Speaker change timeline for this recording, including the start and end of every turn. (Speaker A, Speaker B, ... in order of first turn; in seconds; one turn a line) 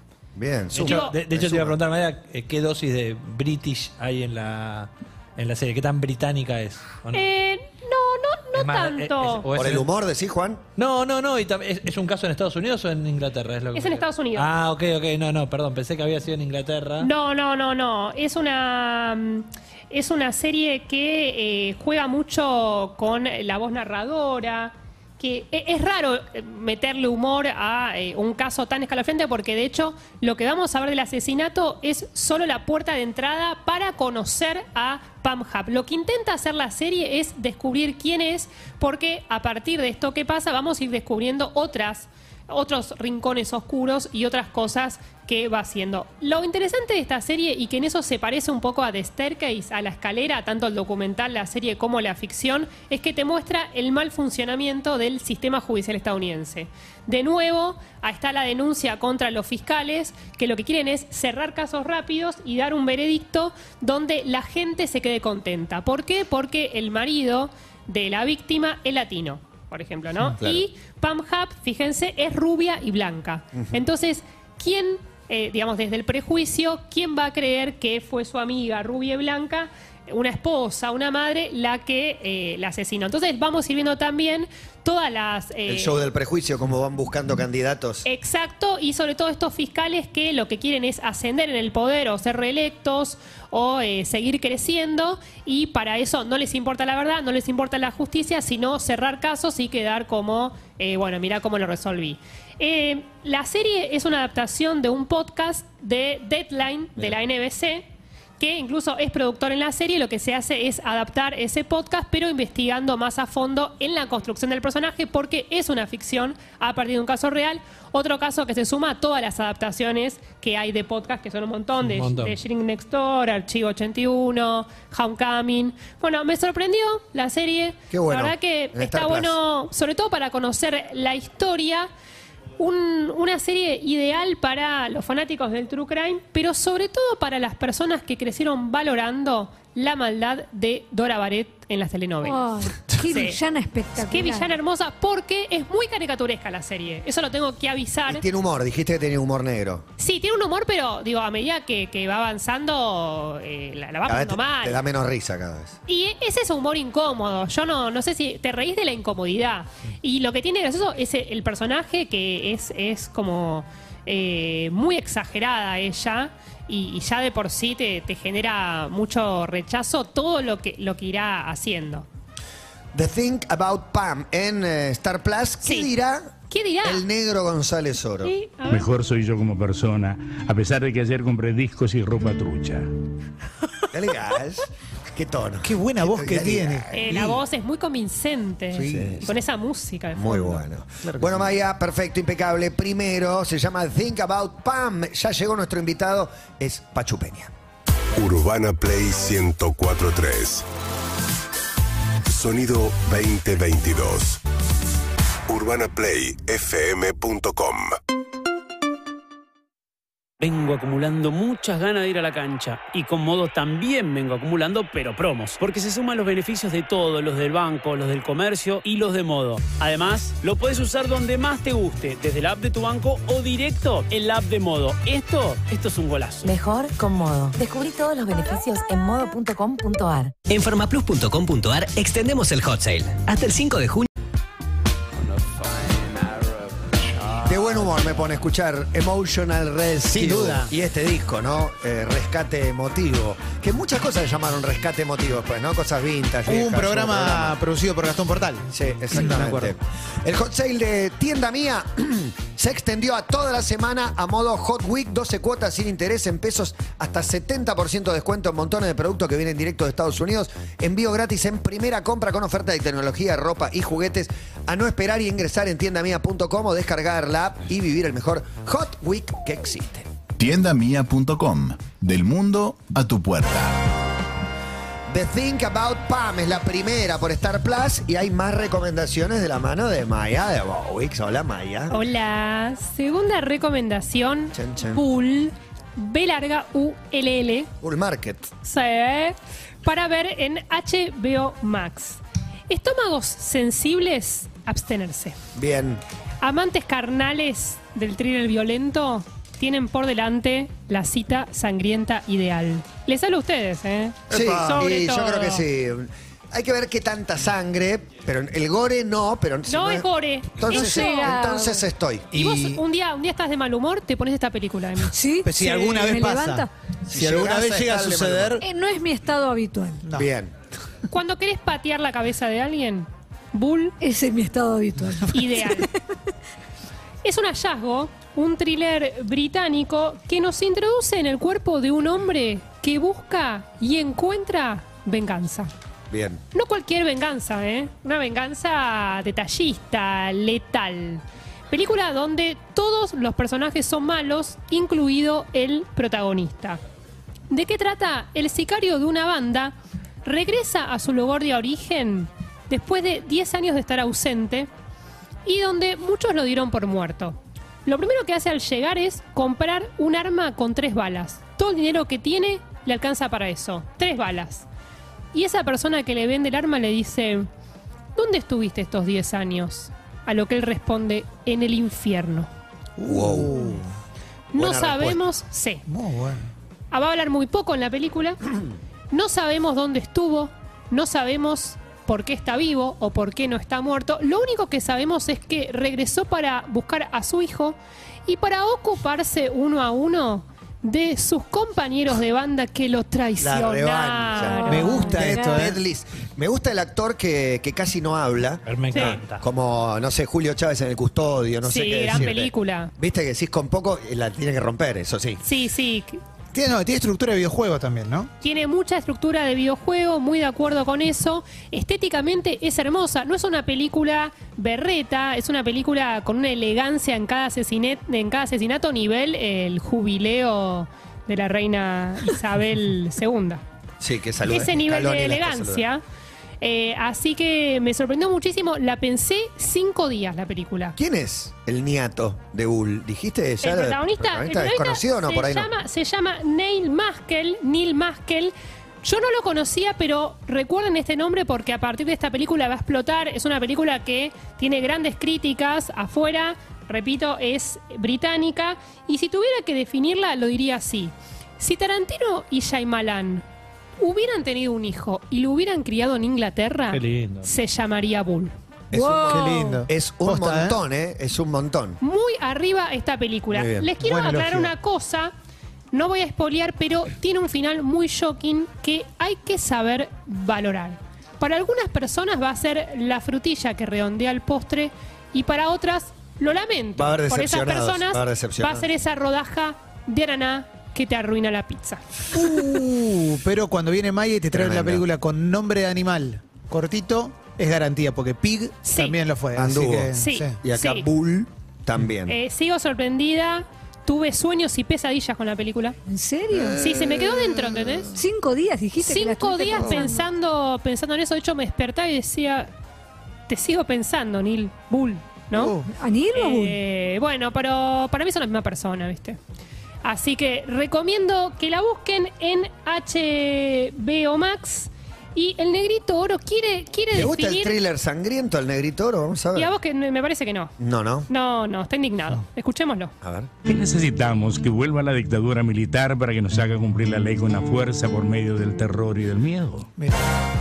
Speaker A: 0.3-1.8
Speaker B: 0.7-7.3
Speaker C: 0.8-1.2
Speaker C: 7.1-9.5
Speaker B: 8.5-9.9
Speaker A: 9.6-10.6
Speaker B: 10.8-17.1
Speaker C: 13.7-14.5
Speaker C: 17.0-86.0
Speaker A: 70.4-70.6
Speaker A: 85.7-88.0
Speaker C: 88.0-107.9
Speaker C: 108.4-131.9
Speaker B: 121.8-122.3
Speaker A: 127.9-129.3
Speaker C: 132.6-142.5
Speaker D: 142.3-144.5
Speaker C: 143.1-143.4
Speaker C: 143.9-148.2
Speaker A: 148.1-149.8
Speaker C: 150.0-154.8
Speaker A: 154.1-155.8
Speaker C: 155.9-172.1
Speaker A: 172.9-178.3
Speaker C: 175.6-175.9
Speaker C: 176.5-177.1
Speaker C: 178.2-178.9
Speaker E: 178.7-182.8
Speaker A: 183.9-187.3
Speaker F: 185.6-187.4
Speaker C: 186.9-190.6
Speaker A: 188.7-189.3
Speaker A: 190.2-197.5
Speaker F: 191.1-191.5
Speaker G: 198.1-200.7
Speaker G: 202.3-204.4
Speaker G: 205.5-207.9
Speaker H: 210.4-226.5
Speaker I: 226.4-230.3
Speaker J: 230.5-234.1
Speaker A: 237.4-247.6
Speaker F: 240.1-240.7
Speaker F: 246.4-249.7
Speaker A: 248.7-270.1
Speaker K: 270.4-273.9
Speaker A: 275.1-281.9
Speaker C: 281.9-287.7
Speaker A: 284.5-285.0
Speaker A: 287.8-288.5
Speaker C: 288.6-295.4
Speaker A: 295.5-296.0
Speaker C: 296.4-305.6
Speaker A: 304.3-312.3
Speaker C: 309.7-311.4
Speaker D: 310.9-311.7
Speaker F: 312.3-312.8
Speaker C: 312.3-315.1
Speaker D: 315.1-316.6
Speaker F: 315.4-318.6
Speaker A: 317.1-318.6
Speaker D: 318.6-320.0
Speaker F: 320.0-320.3
Speaker A: 320.1-320.5
Speaker C: 321.1-323.9
Speaker D: 324.0-325.3
Speaker C: 325.3-325.9
Speaker C: 327.2-335.7
Speaker A: 336.1-336.4
Speaker C: 336.5-346.8
Speaker C: 347.5-354.7
Speaker C: 355.4-364.7
Speaker C: 365.3-367.5
Speaker C: 368.1-372.5
Speaker F: 373.0-373.9
Speaker A: 373.1-373.7
Speaker C: 374.5-375.8
Speaker A: 374.5-375.2
Speaker F: 375.9-376.5
Speaker C: 376.9-378.4
Speaker C: 379.1-395.2
Speaker A: 393.4-405.4
Speaker F: 394.6-395.8
Speaker D: 394.7-395.3
Speaker B: 398.6-399.4
Speaker C: 398.9-399.2
Speaker C: 401.6-402.9
Speaker F: 402.1-402.4
Speaker C: 405.4-406.2
Speaker F: 406.5-408.3
Speaker C: 408.4-423.6
Speaker A: 424.0-425.8
Speaker C: 424.4-426.0
Speaker C: 426.6-431.0
Speaker A: 431.0-435.7
Speaker C: 433.6-453.4
Speaker C: 454.0-458.5
Speaker B: 456.9-457.5
Speaker A: 458.9-462.0
Speaker F: 459.3-460.8
Speaker C: 462.0-465.3
Speaker A: 463.5-463.9
Speaker F: 464.0-464.7
Speaker C: 465.9-482.0
Speaker A: 476.9-478.9
Speaker F: 482.3-490.6
Speaker A: 484.5-485.0
Speaker C: 488.8-489.2
Speaker A: 489.5-490.1
Speaker C: 490.1-491.1
Speaker A: 490.6-492.4
Speaker C: 492.2-495.9
Speaker D: 496.1-496.7
Speaker F: 496.5-498.2
Speaker C: 496.8-498.1
Speaker D: 498.2-500.2
Speaker C: 499.0-502.7
Speaker F: 499.8-500.1
Speaker C: 503.5-505.8
Speaker D: 505.8-506.7
Speaker C: 506.3-509.4
Speaker C: 510.0-517.8
Speaker A: 517.1-519.7
Speaker C: 519.5-520.7
Speaker A: 520.8-521.3
Speaker C: 521.3-523.1
Speaker A: 523.2-523.5
Speaker E: 523.6-529.9
Speaker F: 530.0-530.2